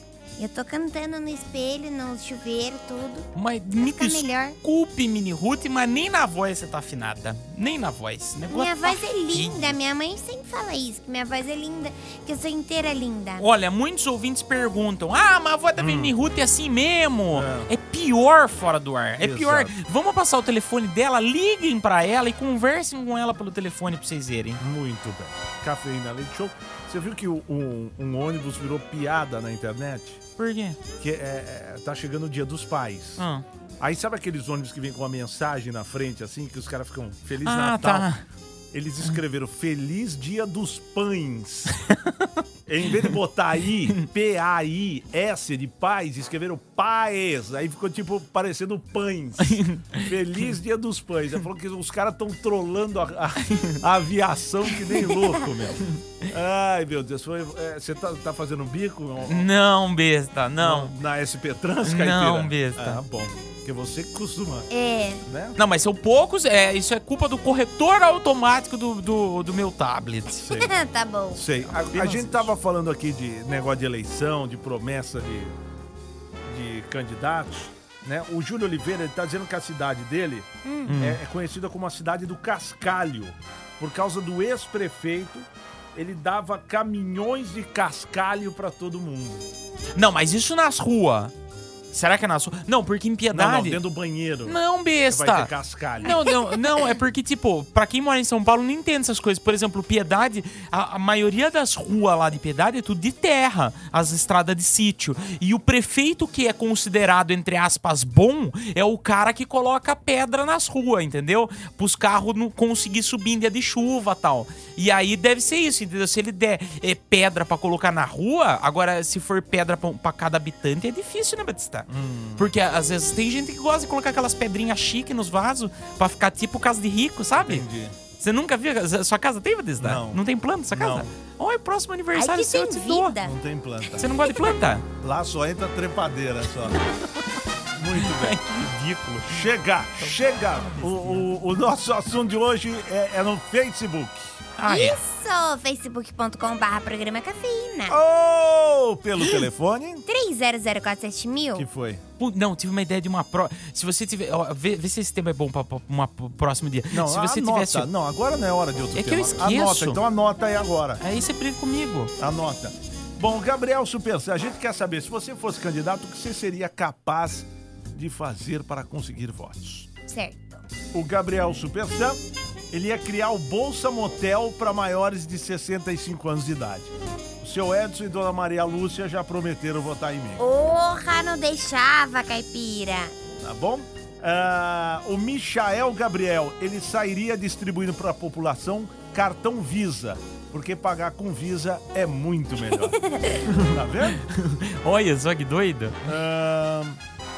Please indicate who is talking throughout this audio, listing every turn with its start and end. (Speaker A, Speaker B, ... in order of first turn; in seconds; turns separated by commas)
Speaker A: 0.4-3.3, Speaker B: 3.3-9.8, Speaker A: 3.8-4.5, Speaker A: 8.5-13.4, Speaker B: 13.4-24.6, Speaker C: 15.8-16.1, Speaker C: 17.3-17.7, Speaker C: 19.2-19.7, Speaker C: 24.6-30.2, Speaker B: 30.4-30.8, Speaker C: 31.0-33.2, Speaker B: 33.2-33.4, Speaker C: 33.8-38.1, Speaker B: 37.4-38.2, Speaker C: 38.7-41.7, Speaker B: 41.9-42.3, Speaker C: 42.7-59.5, Speaker B: 49.4-50.0, Speaker B: 59.3-60.9, Speaker C: 60.6-64.7, Speaker B: 61.8-63.0, Speaker A: 64.7-65.2, Speaker C: 65.2-65.6, Speaker B: 65.6-70.4, Speaker C: 70.4-70.7, Speaker A: 70.5-71.4, Speaker C: 71.3-75.6, Speaker B: 71.6-72.5, Speaker C: 76.4-89.5, Speaker A: 80.6-80.9, Speaker B: 80.9-81.2, Speaker B: 89.9-91.3, Speaker B: 91.9-93.8, Speaker C: 93.3-96.2, Speaker B: 94.4-95.5, Speaker B: 96.0-127.6, Speaker C: 121.9-122.5, Speaker C: 127.4-127.9, Speaker B: 128.2-133.1, Speaker C: 129.8-131.1, Speaker A: 132.1-133.3, Speaker C: 133.2-134.1, Speaker B: 133.9-134.8, Speaker C: 135.0-136.8, Speaker C: 137.7-138.4, Speaker B: 138.0-141.3, Speaker C: 139.3-144.4, Speaker B: 144.6-145.0, Speaker A: 144.6-148.0, Speaker C: 147.9-150.0, Speaker A: 150.1-151.7, Speaker C: 151.5-152.0, Speaker B: 152.2-157.9, Speaker C: 156.9-161.0, Speaker B: 158.9-160.0, Speaker B: 161.0-162.1, Speaker C: 162.2-169.9, Speaker A: 170.1-170.6, Speaker C: 170.9-172.2, Speaker C: 172.7-180.4, Speaker A: 180.4-183.1, Speaker C: 183.4-194.2, Speaker A: 193.0-193.3, Speaker B: 194.3-196.0, Speaker C: 196.0-197.0